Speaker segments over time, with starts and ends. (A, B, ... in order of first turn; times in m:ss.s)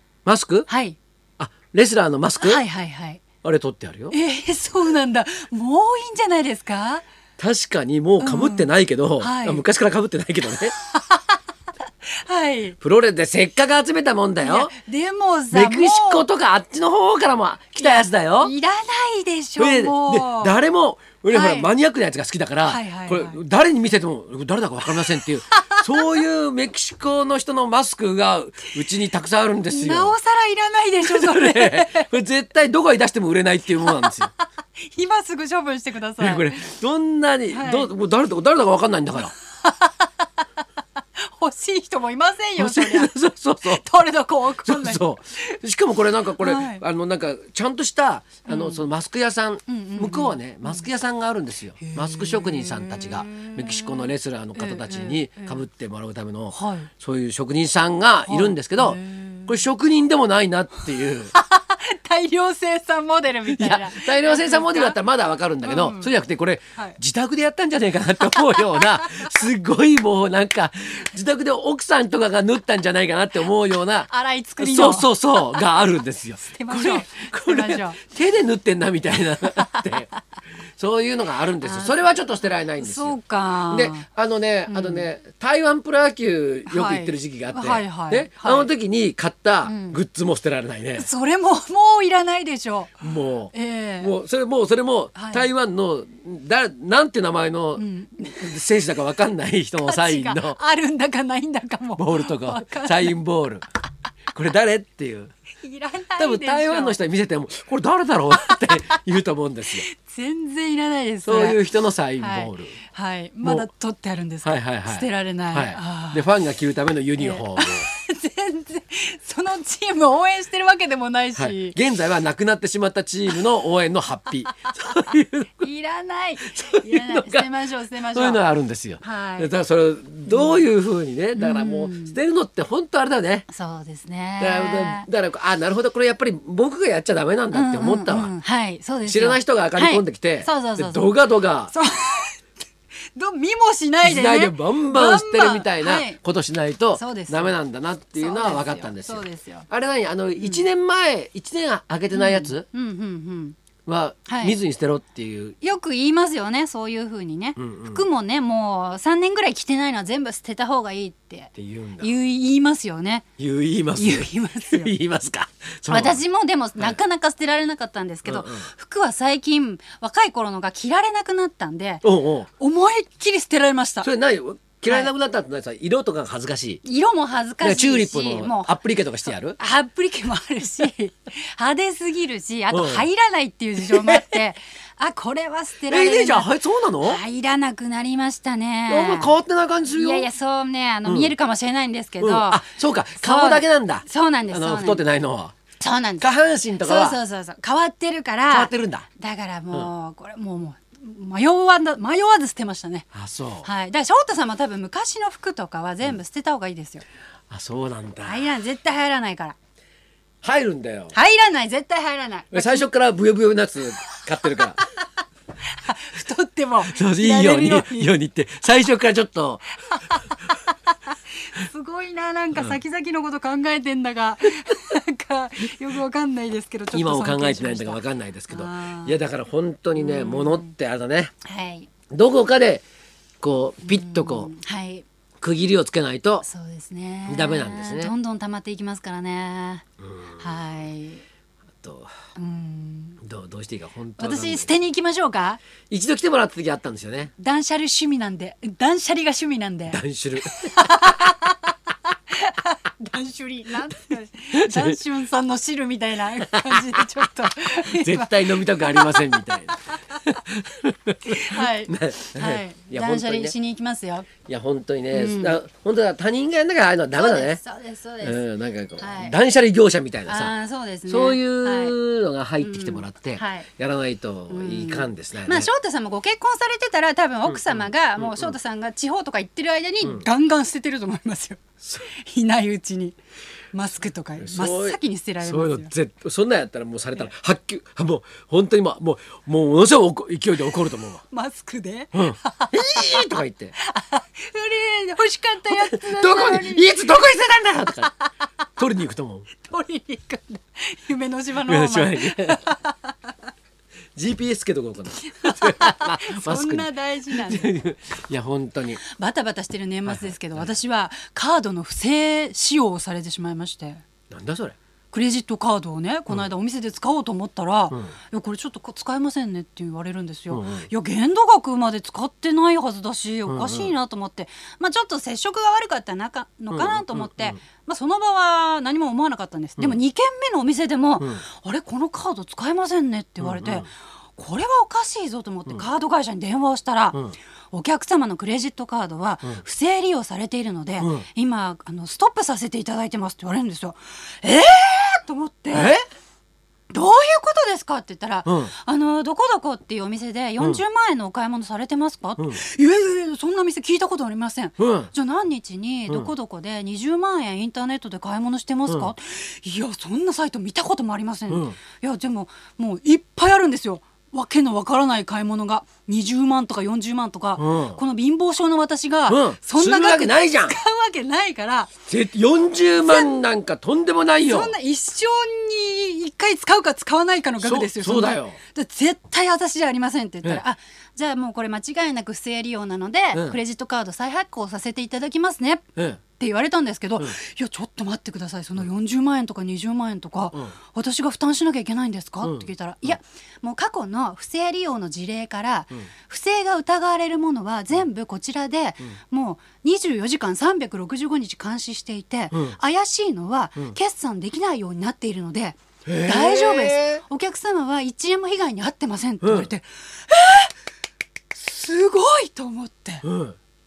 0:00.2-0:00.7 A
0:00.7-0:01.0 B
0:01.4-0:02.6 A
0:02.4-0:03.2 B
0:03.4-0:04.2 A
0:04.1-0:07.0 B
0:07.4-0:10.8 A
0:08.2-0:09.6 B
0:10.7-0:11.4 B
0:12.1-0:12.8 B
0:12.8-0:14.8 A
0:14.4-0:16.3 B
0:15.5-0:18.5 A
0:17.8-0:20.6 B
0:19.6-0:30.2 A
0:21.3-0:21.7 B
0:22.6-0:23.4 B
0:25.6-0:25.9 B
0:29.7-0:32.1 B
0:31.0-0:34.3 A
0:33.8-0:36.6 B
0:36.2-0:39.3 A
0:37.5-0:37.9 B
0:39.2-0:40.4 B
0:41.2-0:45.5 B
0:42.6-0:43.8 A
0:44.6-1:01.3 A
0:46.4-0:46.8 B
0:48.5-0:48.8 B
0:49.7-0:50.9 B
0:51.8-0:55.6 B
0:56.5-0:56.9 B
0:58.3-0:59.6 B
1:01.3-1:05.0 B
1:03.5-1:20.1 A
1:05.6-1:06.1 B
1:08.6-1:09.3 B
1:14.0-1:15.8 B
1:16.5-1:18.0 B
1:19.5-1:20.2 B
1:20.8-1:23.2 A
1:21.6-1:22.2 B
1:22.8-1:24.0 B
1:23.7-1:31.1 A
1:24.7-1:25.1 B
1:26.7-1:28.7 B
1:29.6-1:30.0 B
1:31.0-1:34.1 B
1:33.0-1:40.6 A
1:35.2-1:35.5 B
1:37.8-1:38.6 B
1:39.8-1:43.2 B
1:42.0-1:43.7 A
1:44.3-1:45.3 A
1:45.6-1:47.0 B
1:46.2-1:49.9 A
1:48.3-1:48.8 B
1:49.7-1:51.6 B
1:51.2-1:52.8 A
1:52.2-1:56.3 B
1:53.4-1:53.7 A
1:54.4-1:57.9 A
1:57.2-2:01.8 B
2:01.4-2:05.6 A
2:04.7-2:05.1 B
2:05.6-2:08.4 B
2:06.4-2:07.5 A
2:08.1-2:13.5 A
2:09.0-2:09.5 B
2:10.3-2:10.7 B
2:11.4-2:12.2 B
2:13.5-2:15.1 B
2:14.4-2:18.3 A
2:17.5-2:21.2 B
2:19.0-2:21.7 A
2:21.7-2:22.4 B
2:23.2-2:26.2 B
2:24.0-2:32.7 A
2:27.0-2:27.5 B
2:28.2-2:29.7 B
2:30.4-2:30.7 B
2:32.1-2:33.6 B
2:33.9-2:35.6 A
2:34.3-2:34.6 B
2:35.6-2:43.2 B
2:37.6-2:38.0 A
2:41.6-2:42.1 A
2:43.4-2:46.2 A
2:44.0-2:44.9 B
2:45.9-2:52.0 B
2:48.3-2:48.7 A
2:52.0-2:52.5 A
2:52.6-2:54.1 B
2:54.0-2:56.8 A
2:54.9-2:55.1 B
2:56.8-2:58.8 B
2:57.6-2:59.6 A
2:59.6-3:09.4 B
3:02.7-3:03.1 A
3:03.9-3:04.4 A
3:05.9-3:07.2 A
3:08.9-3:10.3 A
3:09.9-3:15.0 B
3:11.0-3:11.3 A
3:12.2-3:15.6 A
3:15.8-3:16.3 B
3:16.2-3:17.2 A
3:16.8-3:23.1 B
3:18.5-3:19.1 A
3:23.1-3:23.7 A
3:23.6-3:27.0 B
3:27.5-3:28.5 A
3:28.2-3:29.6 B
3:30.4-3:31.2 A
3:31.1-3:32.9 B
3:32.5-3:34.8 A
3:34.4-3:34.9 B
3:35.7-3:38.1 B
3:36.9-3:39.7 A
3:39.9-3:49.2 B
3:46.9-3:51.3 A
3:50.0-3:50.7 B
3:51.4-3:51.9 B
3:52.1-3:52.8 A
3:53.4-3:54.5 A
3:53.8-3:55.0 B
3:55.4-3:56.4 A
3:56.4-3:59.8 B
3:57.3-3:58.1 A
4:00.0-4:00.4 A
4:00.4-4:01.2 B
4:01.8-4:02.1 A
4:02.4-4:03.2 B
4:03.2-4:04.7 A
4:04.2-4:05.6 B
4:05.9-4:07.3 A
4:07.4-4:11.8 B
4:09.9-4:10.8 A
4:12.3-4:19.6 B
4:14.5-4:15.0 A
4:16.4-4:17.0 A
4:17.9-4:23.6 A
4:21.3-4:24.3 B
4:24.5-4:27.6 A
4:25.1-4:25.6 B
4:27.1-4:28.4 B
4:28.2-4:30.5 A
4:29.0-4:29.4 B
4:30.3-4:32.0 B
4:31.1-4:35.7 A
4:32.6-4:33.7 B
4:34.5-4:43.2 B
4:37.5-4:38.6 A
4:43.7-4:45.9 B
4:44.4-4:51.2 A
4:51.3-4:57.0 B
4:52.1-4:53.7 A
4:55.7-4:58.1 A
4:58.0-4:58.3 B
4:58.8-4:59.5 A
4:59.6-5:03.3 B
5:01.7-5:02.6 A
5:04.2-5:09.0 A
5:05.2-5:07.7 B
5:09.0-5:14.0 B
5:10.1-5:10.8 A
5:14.3-5:14.8 A
5:15.1-5:37.2 B
5:20.5-5:20.9 A
5:23.5-5:23.9 A
5:26.7-5:27.6 A
5:33.4-5:33.9 A
5:37.7-5:46.0 B
5:41.0-5:41.3 A
5:45.7-5:46.0 A
5:46.9-6:11.9 B
5:48.5-5:48.7 A
5:54.8-5:55.1 A
6:01.5-6:01.8 A
6:07.6-6:08.0 A
6:09.3-6:10.8 A
6:12.1-6:14.7 A
6:13.0-6:13.3 B
6:14.4-6:25.9 B
6:17.6-6:18.6 A
6:26.0-6:26.2 A
6:26.4-6:50.7 B
6:32.4-6:33.2 A
6:46.0-6:47.2 A
6:49.4-6:49.7 A
6:51.5-6:53.2 B
6:53.2-6:53.6 A